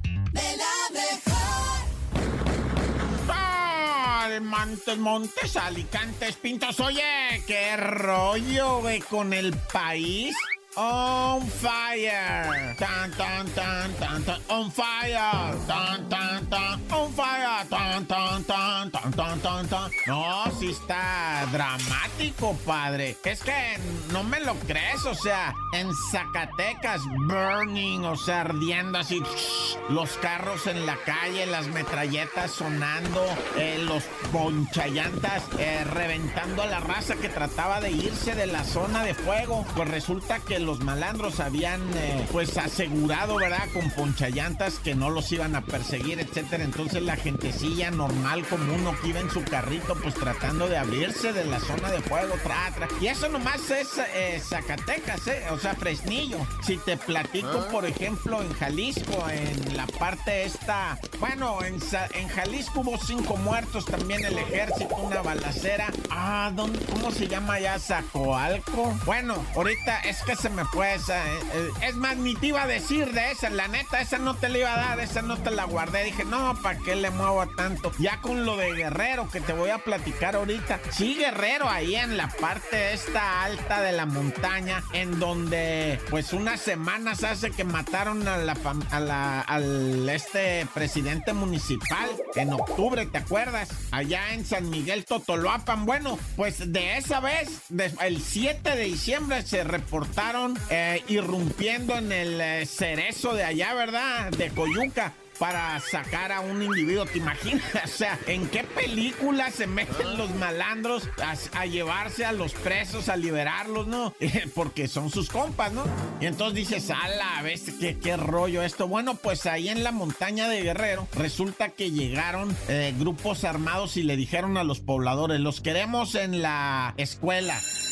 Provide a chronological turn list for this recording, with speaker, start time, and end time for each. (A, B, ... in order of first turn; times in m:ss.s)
0:03.2-2:07.6 A